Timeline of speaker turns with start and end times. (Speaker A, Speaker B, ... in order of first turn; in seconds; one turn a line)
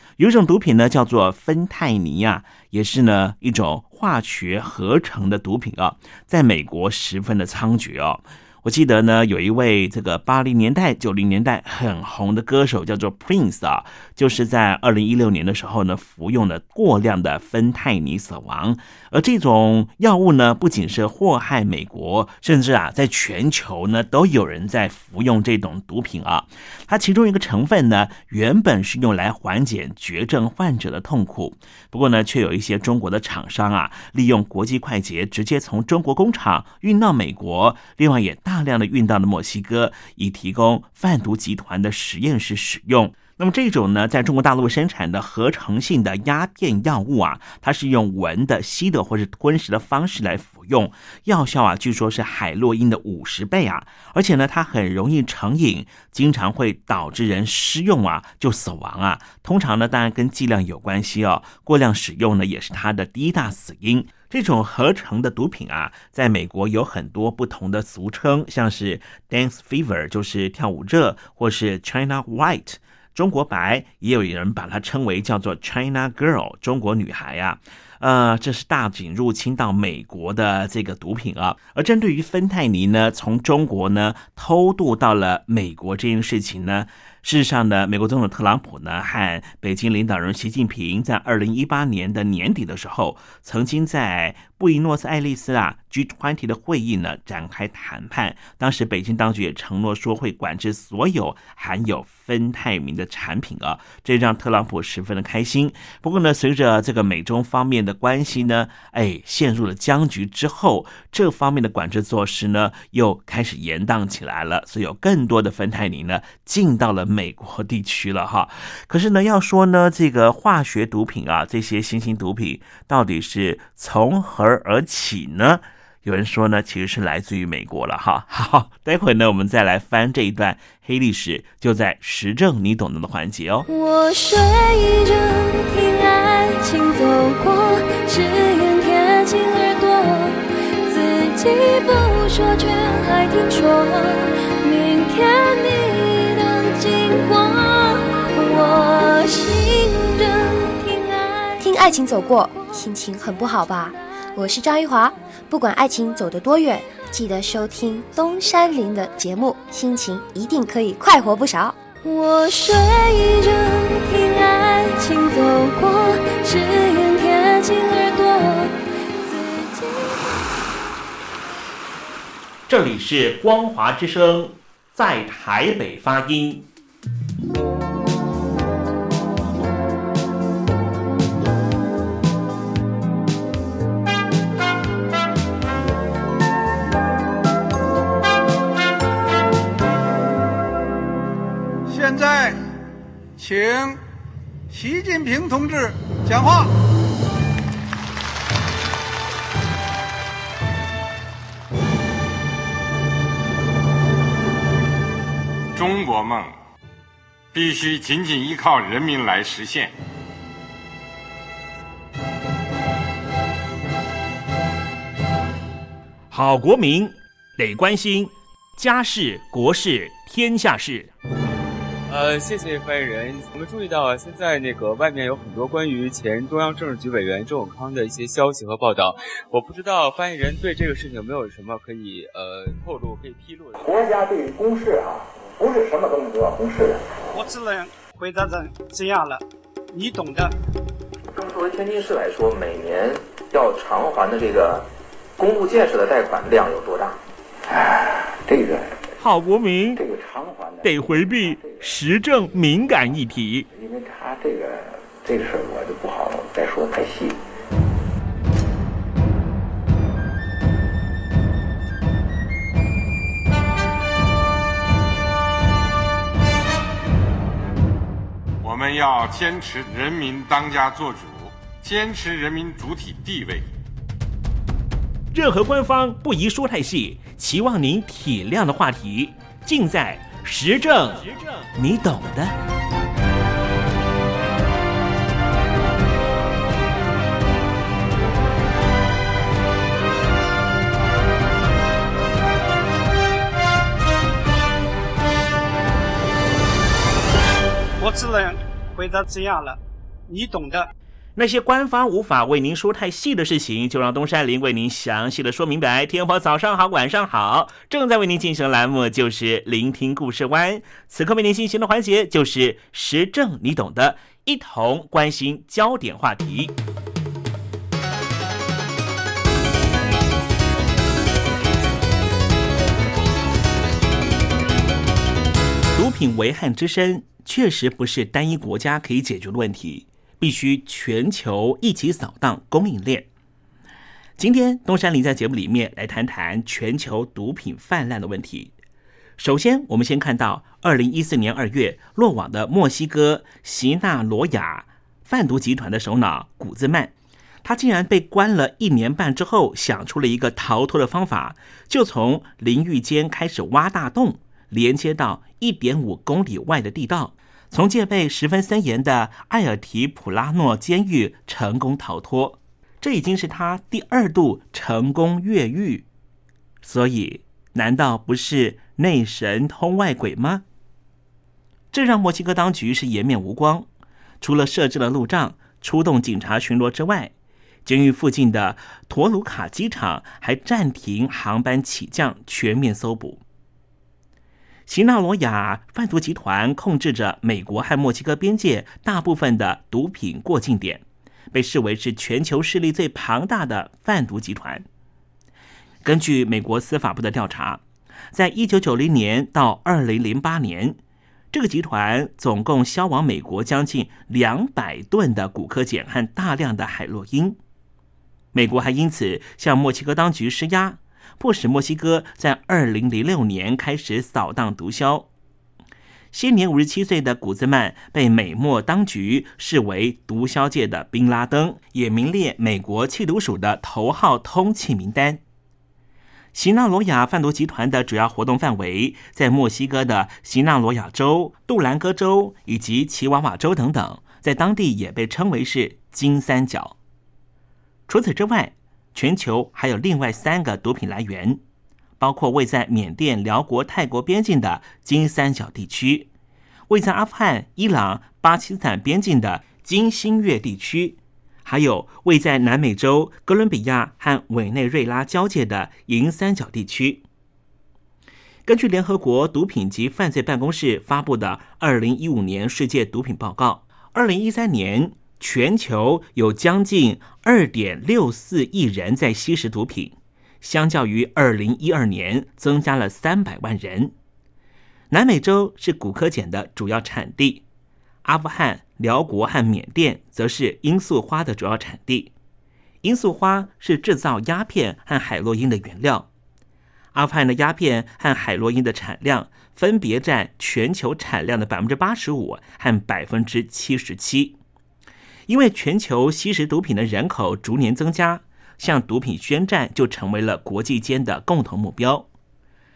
Speaker A: 0.2-133.7
Speaker B: 133.7-151.7
Speaker C: 151.6-161.8
Speaker B: 162.0-170.6
Speaker A: 172.7-176.7
Speaker D: 191.9-192.6
Speaker D: 193.4-194.0
Speaker D: 194.7-196.7
Speaker E: 205.7-206.6
Speaker E: 207.5-209.9
Speaker A: 216.3-221.1
Speaker F: 222.1-233.9
Speaker G: 233.8-237.0
Speaker D: 237.3-239.4
Speaker D: 239.9-240.5
Speaker G: 241.3-244.9
Speaker G: 245.4-249.0
Speaker A: 249.2-250.0
Speaker G: 250.0-251.8
Speaker A: 250.8-253.7
Speaker G: 253.7-257.4
Speaker E: 268.6-273.7
Speaker A: 275.3-282.6
Speaker D: 298.0-299.8
Speaker D: 300.3-300.8
Speaker A: 301.4-316.7
Speaker A: 325.9-333.3
Speaker A: 334.4-338.7
Speaker A: 339.4-347.1
Speaker A: 347.6-366.1
Speaker A: 366.8-370.6
Speaker A: 371.9-373.9
Speaker A: 374.4-377.3
Speaker A: 377.9-383.4
Speaker A: 384.9-394.9
Speaker A: 396.0-397.8
Speaker A: 398.3-401.0
Speaker A: 401.5-407.6
Speaker A: 408.5-415.3
Speaker A: 416.3-425.4
Speaker A: 426.5-436.9
Speaker A: 438.1-441.6
Speaker A: 442.2-446.3
Speaker A: 446.9-457.2
Speaker A: 458.7-474.1
Speaker A: 475.1-477.6
Speaker A: 478.2-482.3
Speaker A: 483.0-486.3
Speaker A: 487.1-494.6
Speaker A: 495.5-502.3